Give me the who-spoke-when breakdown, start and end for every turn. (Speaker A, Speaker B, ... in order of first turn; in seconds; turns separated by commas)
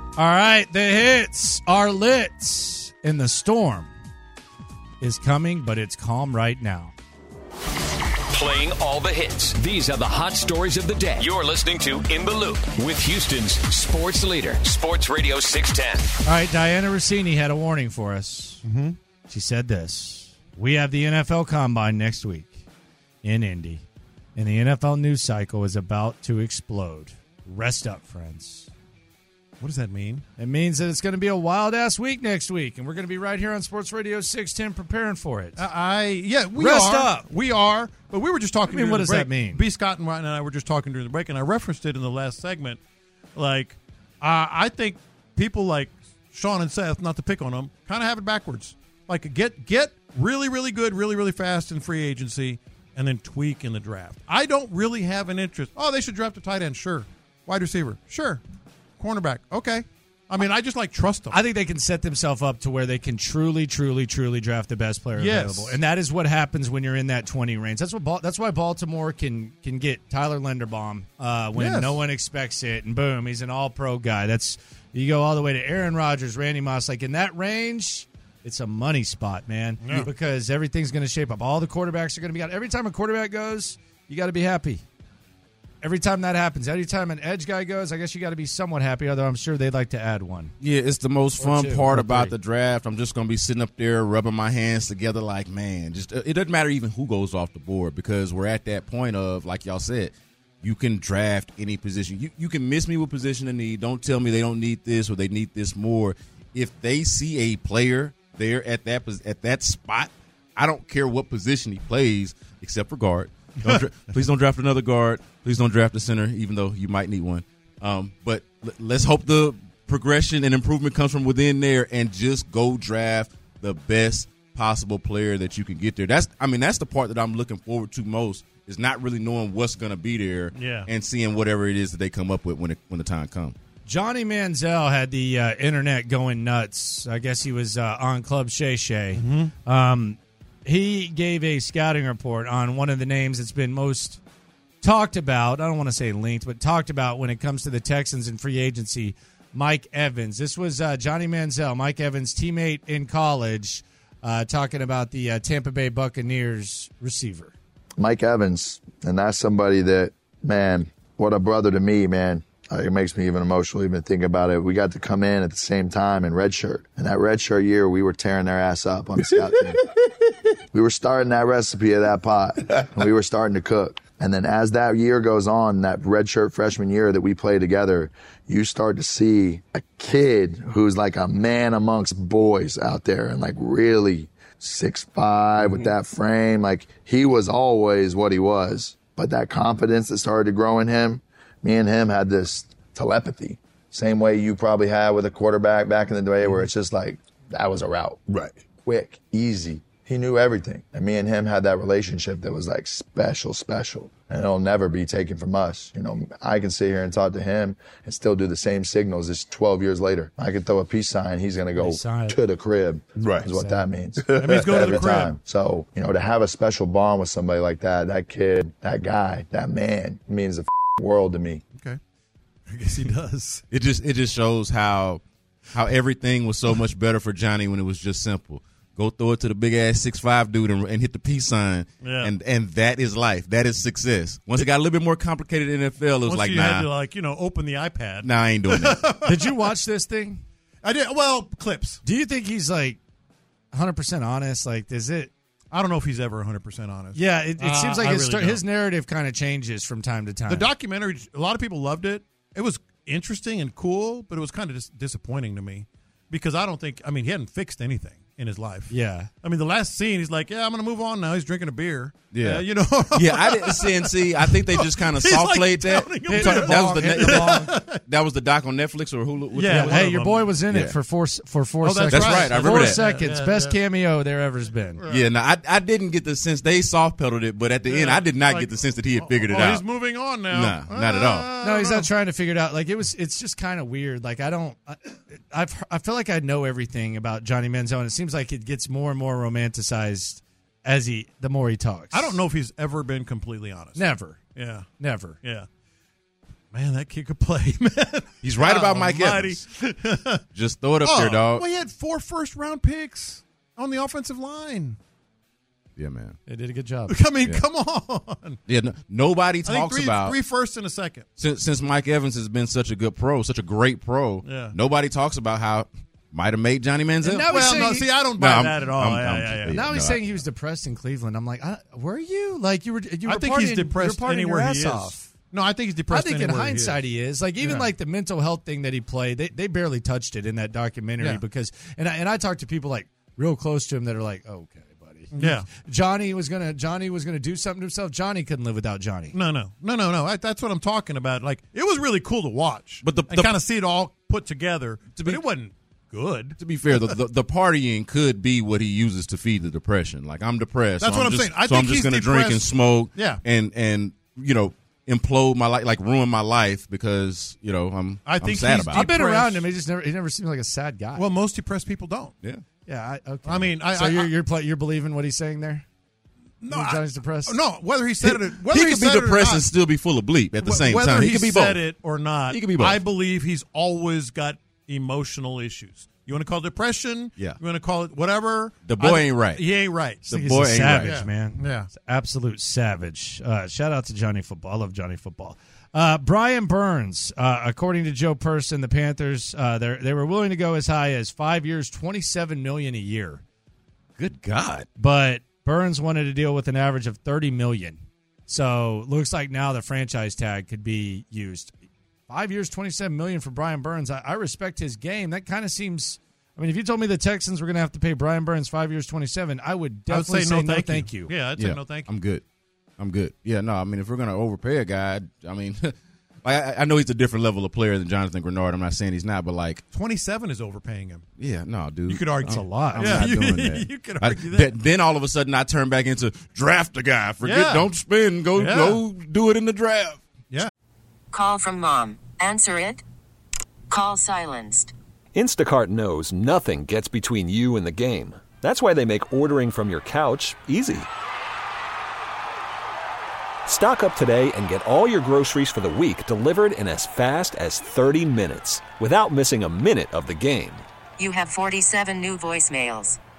Speaker A: 0.1-3.9, Speaker A: 5.0-6.9, Speaker B: 8.3-16.1, Speaker A: 16.2-18.6, Speaker C: 18.6-19.0, Speaker A: 19.3-22.6, Speaker A: 23.2-23.8, Speaker A: 24.4-28.7, Speaker C: 29.6-30.2, Speaker A: 30.4-35.6, Speaker C: 35.5-42.8, Speaker A: 36.6-37.3, Speaker A: 38.6-39.6, Speaker C: 43.3-58.4, Speaker C: 59.0-61.3, Speaker A: 61.3-84.8, Speaker C: 65.2-65.8, Speaker C: 71.6-72.0, Speaker C: 79.8-80.1, Speaker A: 85.8-90.5, Speaker D: 90.6-133.5, Speaker A: 91.4-92.3, Speaker C: 130.5-130.9, Speaker A: 133.8-144.2, Speaker C: 139.1-139.5, Speaker A: 144.8-157.5, Speaker E: 158.0-169.8, Speaker E: 170.7-198.2, Speaker E: 198.8-221.6, Speaker A: 211.8-212.4, Speaker A: 213.4-213.9, Speaker C: 214.4-215.3, Speaker C: 222.7-223.6, Speaker D: 223.7-225.2, Speaker D: 225.7-236.9, Speaker C: 232.0-232.3, Speaker C: 236.2-239.5, Speaker D: 238.2-239.0, Speaker A: 239.2-240.4, Speaker C: 240.8-242.0, Speaker A: 242.0-243.0, Speaker A: 243.7-245.3, Speaker C: 245.7-248.6, Speaker A: 247.1-250.7, Speaker C: 250.5-258.9, Speaker A: 258.9-259.3, Speaker C: 259.4-268.0, Speaker D: 262.3-270.1, Speaker A: 266.2-267.8, Speaker C: 269.5-270.5, Speaker A: 269.7-275.0, Speaker D: 270.6-271.0, Speaker C: 271.8-273.8, Speaker D: 272.1-273.0, Speaker C: 275.0-275.2, Speaker D: 275.1-279.9, Speaker C: 277.9-282.1, Speaker D: 280.4-281.5, Speaker A: 281.6-292.4, Speaker C: 292.1-294.0, Speaker A: 293.9-294.4, Speaker C: 294.5-294.9, Speaker A: 295.0-295.4, Speaker C: 295.4-295.7, Speaker C: 296.7-300.4, Speaker D: 298.4-299.6, Speaker D: 300.5-301.6, Speaker C: 301.0-305.0, Speaker D: 306.0-306.4, Speaker A: 306.5-307.2, Speaker C: 307.1-308.6, Speaker D: 308.7-310.4, Speaker C: 309.6-311.2, Speaker D: 311.4-317.5, Speaker C: 314.4-314.8, Speaker A: 317.2-318.1, Speaker C: 317.5-319.8, Speaker D: 318.4-320.4, Speaker A: 319.7-325.3, Speaker C: 323.3-327.0, Speaker A: 326.1-339.4, Speaker C: 327.6-327.9, Speaker C: 335.3-335.7, Speaker C: 339.3-347.1, Speaker D: 343.0-343.5, Speaker D: 345.1-345.4, Speaker D: 346.6-359.1, Speaker C: 351.0-353.4, Speaker C: 358.2-359.6, Speaker A: 358.9-361.2, Speaker C: 361.2-362.3, Speaker A: 362.9-365.9, Speaker C: 363.4-364.3, Speaker C: 366.6-369.6, Speaker A: 366.7-367.6, Speaker D: 368.2-371.8, Speaker C: 370.6-380.2, Speaker D: 372.5-373.0, Speaker D: 378.8-379.6, Speaker A: 380.2-393.4, Speaker D: 380.3-381.2, Speaker C: 381.1-381.9, Speaker D: 394.2-394.9, Speaker A: 395.0-401.7, Speaker A: 402.3-411.3, Speaker C: 410.1-412.1, Speaker D: 411.5-412.4, Speaker D: 413.0-419.8, Speaker C: 419.9-421.2, Speaker D: 421.4-430.2, Speaker C: 422.1-424.7, Speaker A: 422.4-423.3, Speaker C: 427.4-427.9, Speaker C: 428.6-429.0, Speaker F: 431.3-432.9, Speaker F: 433.9-434.7, Speaker G: 435.3-441.1, Speaker G: 443.6-450.8, Speaker F: 451.2-453.1